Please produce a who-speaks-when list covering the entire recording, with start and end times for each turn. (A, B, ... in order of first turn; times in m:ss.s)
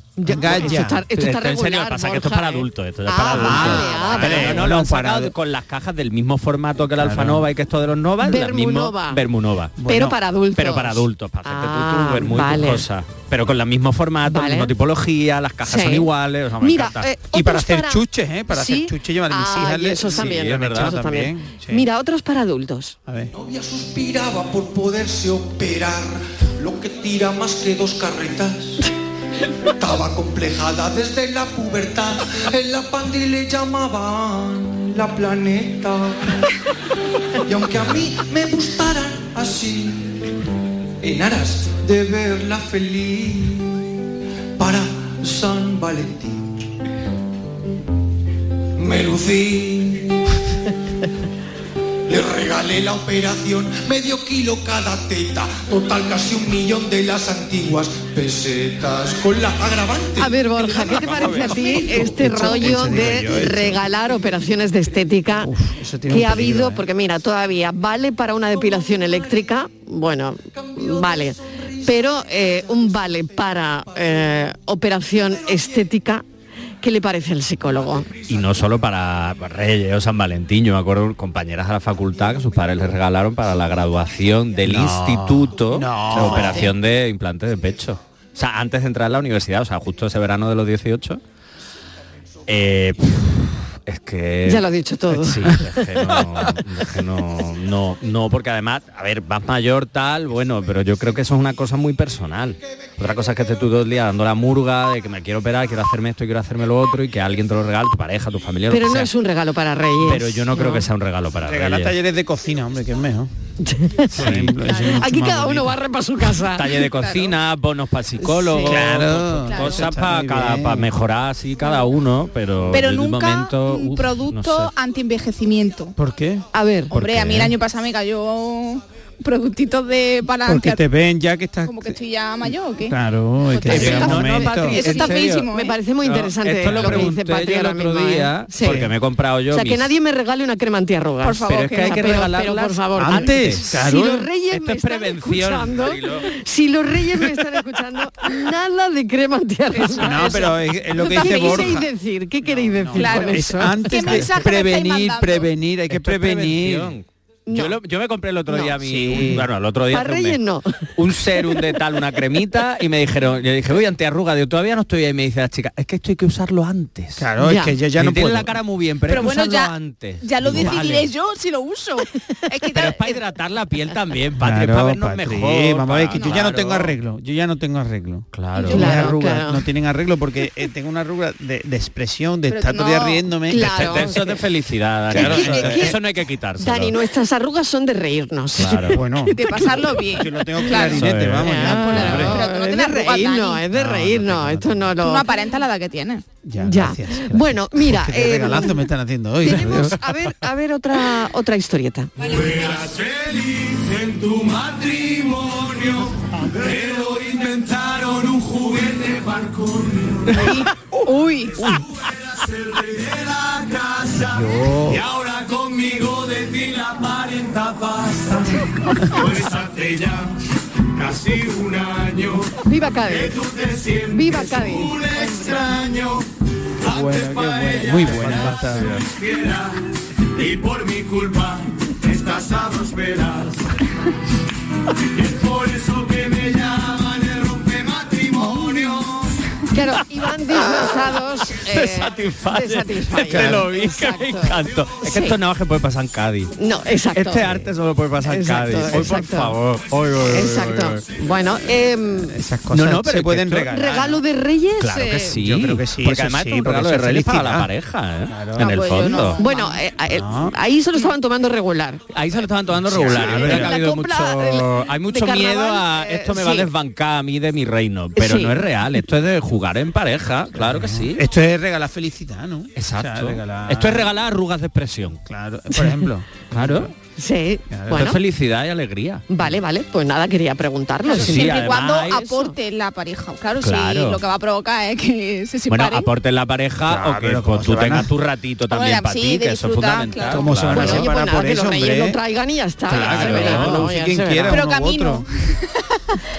0:00.2-0:04.6 A
0:00.2-0:01.0 B
0:00.4-0:09.8 C
0:03.2-0:05.3 B
0:07.0-0:07.5 B
0:08.2-0:09.2 A
0:09.8-0:10.2 B
0:09.9-0:12.8 A
0:10.6-0:17.1 C
0:14.2-0:14.7 A
0:15.6-0:16.1 A
0:16.6-0:23.0 A
0:17.3-0:21.8 B
0:20.0-0:20.9 C
0:23.0-0:23.3 B
0:23.3-0:28.8 D
0:29.8-0:36.2 D
0:37.4-0:40.2 D
0:41.0-0:43.9 D
0:44.6-0:46.6 D
0:48.8-0:50.2 D
0:52.1-1:02.1 D
1:00.2-1:05.5 A
1:00.8-1:03.8 B
1:05.4-1:06.8 B
1:06.1-1:16.2 A
1:08.6-1:09.4 D
1:10.5-1:13.1 D
1:16.8-1:18.1 A
1:18.3-1:31.2 C
1:24.6-1:26.7 B
1:26.2-1:26.5 A
1:32.5-1:49.1 C
1:34.4-1:35.6 A
1:48.7-1:50.8 A
1:50.0-1:51.9 C
1:51.4-1:53.3 B
1:53.6-1:54.1 A
1:54.1-1:55.8 B
1:54.1-1:54.7 C
1:54.9-1:56.8 A
1:56.5-2:04.7 C
1:56.9-1:57.3 E
1:58.2-1:58.8 A
1:58.6-2:00.9 B
1:59.4-1:59.9 E
2:02.7-2:05.9 E
2:06.0-2:06.4 B
2:06.5-2:06.9 A
2:06.9-2:07.6 C
2:06.9-2:10.8 E
2:10.4-2:12.0 B
2:11.6-2:13.0 E
2:12.8-2:14.8 B
2:13.5-2:15.8 E
2:13.6-2:15.5 C
2:14.8-2:18.8 A
2:16.0-2:19.9 C
2:16.6-2:17.1 B
2:18.6-2:18.9 B
2:19.5-2:34.3 A
2:21.2-2:22.2 E
2:21.4-2:23.6 C
2:23.0-2:24.3 B
2:24.5-2:26.3 C
2:29.7-2:31.7 E
2:30.0-2:31.9 B
2:32.4-2:36.9 B
2:32.9-2:35.5 E
2:35.9-2:40.4 C
2:37.5-2:37.8 A
2:38.5-2:38.7 A
2:38.8-2:39.5 B
2:39.9-2:40.9 A
2:41.0-2:47.3 C
2:47.2-2:48.6 B
2:47.4-2:47.7 A
2:48.0-2:51.1 C
2:49.1-2:53.2 E
2:52.7-2:56.9 C
2:54.4-3:04.1 B
2:58.3-2:59.0 C
2:58.7-2:59.6 A
3:02.5-3:03.3 E
3:03.5-3:04.4 A
3:03.6-3:07.0 C
3:05.1-3:06.0 B
3:05.1-3:06.0 A
3:06.6-3:09.0 A
3:08.6-3:09.0 C
3:08.9-3:12.4 B
3:09.3-3:13.6 E
3:10.8-3:12.2 C
3:11.4-3:15.3 A
3:13.7-3:14.9 B
3:15.0-3:16.2 E
3:16.4-3:20.0 B
3:16.6-3:18.8 A
3:19.4-3:22.1 A
3:22.2-3:30.4 F
3:30.3-3:31.8 E
3:31.6-3:40.3 F
3:34.2-3:35.0 B
3:40.9-3:42.5 F
3:42.7-3:43.4 A
3:43.0-3:46.2 F
3:44.1-3:45.0 A
3:46.8-3:49.8 F
3:46.8-3:49.0 B
3:50.3-3:53.7 F
3:55.1-3:59.3 F
3:59.7-4:05.4 A
4:01.5-4:06.5 C
4:03.3-4:03.6 B
4:06.6-4:07.7 A
4:07.1-4:11.0 C
4:08.2-4:09.5 A
4:10.2-4:12.3 A
4:12.2-4:14.2 B
4:12.7-4:13.8 C
4:13.7-4:15.3 A
4:14.8-4:19.4 C
4:15.4-4:17.7 B
4:18.3-4:18.8 B
4:18.6-4:19.8 E
4:19.4-4:22.0 A
4:20.1-4:20.5 B
4:22.1-4:31.2 C
4:22.8-4:23.8 B
4:23.0-4:26.7 A
4:28.2-4:28.5 A
4:30.5-4:34.1 B
4:32.8-4:35.2 C
4:35.2-4:36.9 B
4:36.5-4:36.9 C
4:37.2-4:38.2 A
4:37.7-4:38.1 B
4:37.9-4:39.2 C
4:39.3-4:42.5 A
4:41.0-4:46.1 E
4:41.1-4:42.4 C
4:43.6-4:44.2 C
4:45.7-4:51.1 C
4:46.8-4:48.1 B
4:48.7-4:50.5 E
4:50.3-4:52.2 B
4:50.7-4:54.6 A
4:52.9-4:55.2 B
4:52.9-4:53.9 C
4:54.5-4:56.2 E